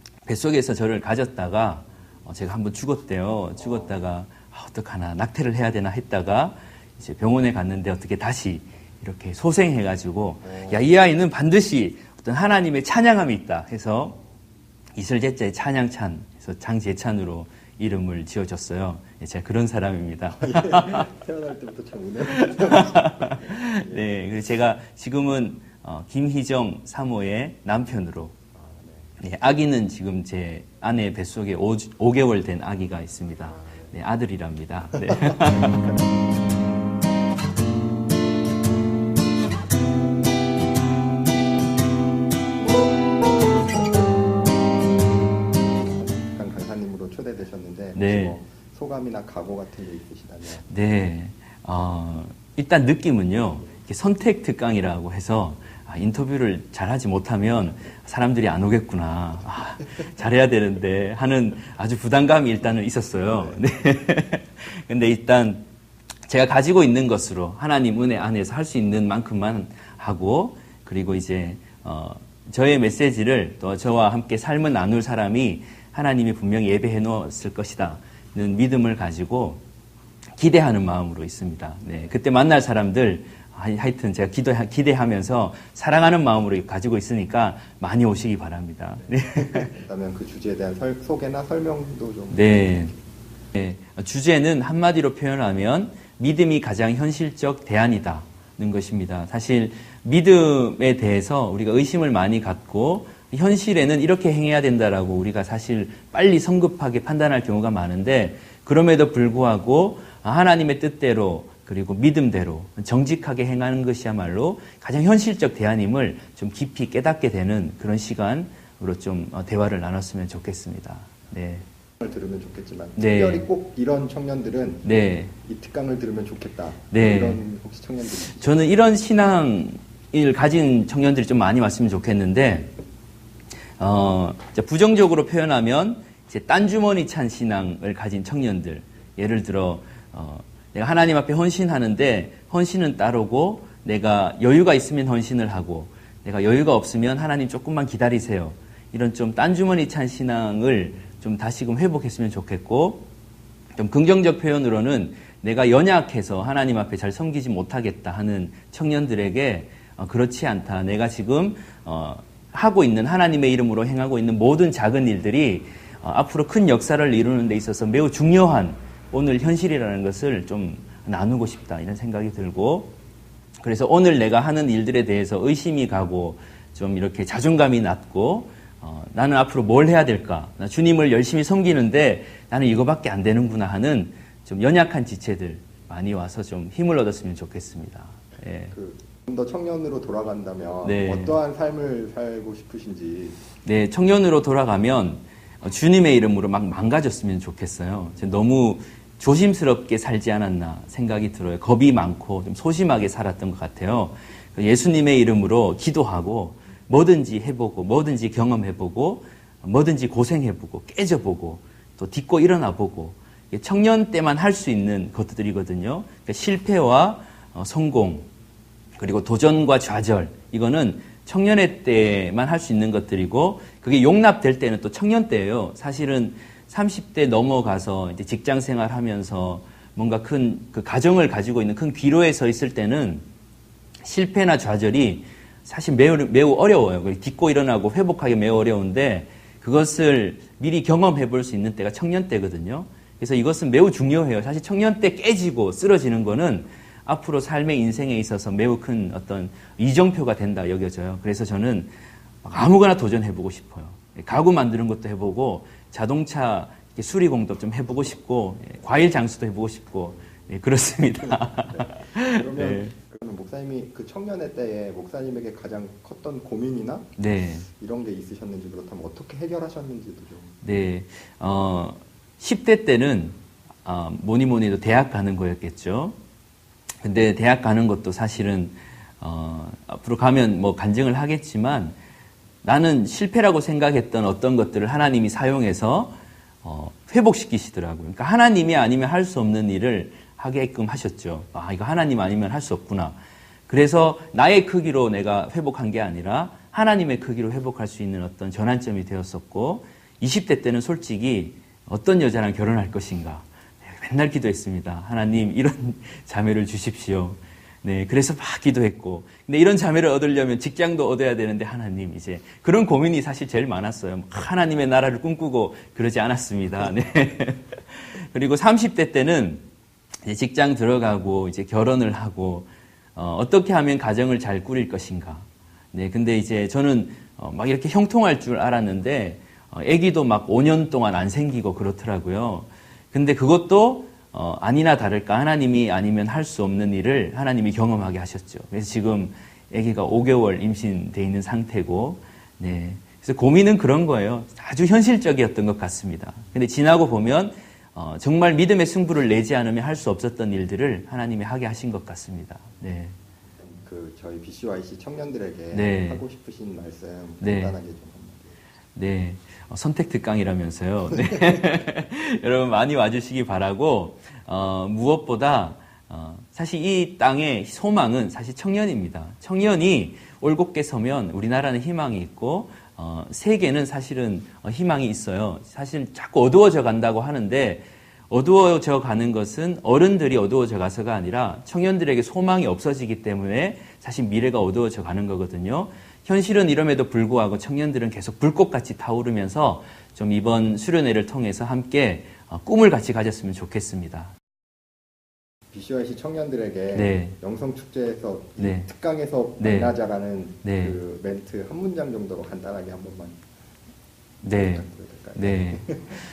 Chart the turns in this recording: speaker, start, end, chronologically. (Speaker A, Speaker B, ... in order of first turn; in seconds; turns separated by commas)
Speaker A: 0.2-14.2, Speaker B: 10.4-10.8, Speaker A: 14.9-21.1, Speaker B: 20.4-24.1, Speaker A: 22.4-28.4, Speaker B: 28.6-29.2, Speaker A: 29.2-36.0, Speaker B: 33.6-33.9, Speaker B: 45.6-50.7, Speaker A: 48.0-48.4, Speaker A: 50.7-65.7, Speaker A: 66.3-79.6, Speaker A: 80.4-89.7, Speaker B: 89.3-93.0, Speaker A: 92.3-92.9, Speaker A: 93.5-121.7, Speaker B: 122.0-124.9, Speaker A: 123.0-123.5, Speaker A: 124.8-125.3, Speaker B: 125.4-128.6, Speaker A: 126.9-127.4, Speaker A: 128.3-132.7, Speaker A: 133.8-153.1, Speaker A: 153.8-172.9, Speaker A: 173.6-188.8, Speaker B: 188.7-193.4, Speaker A: 190.8-191.4, Speaker A: 193.7-218.3, Speaker A: 219.0-233.2, Speaker A: 234.0-251.9, Speaker A: 252.4-262.9, Speaker B: 261.6-267.1, Speaker A: 267.2-267.7, Speaker B: 267.7-270.6, Speaker A: 270.6-276.2, Speaker A: 277.0-282.0, Speaker A: 282.6-293.2, Speaker A: 293.7-319.6, Speaker A: 320.2-353.2, Speaker B: 353.6-358.6, Speaker A: 355.7-356.2, Speaker A: 357.4-357.8, Speaker A: 359.0-394.3, Speaker B: 395.7-403.4, Speaker A: 396.9-397.4, Speaker A: 398.6-398.9, Speaker A: 399.6-399.9, Speaker A: 400.6-401.0, Speaker A: 404.4-406.0, Speaker B: 404.5-406.2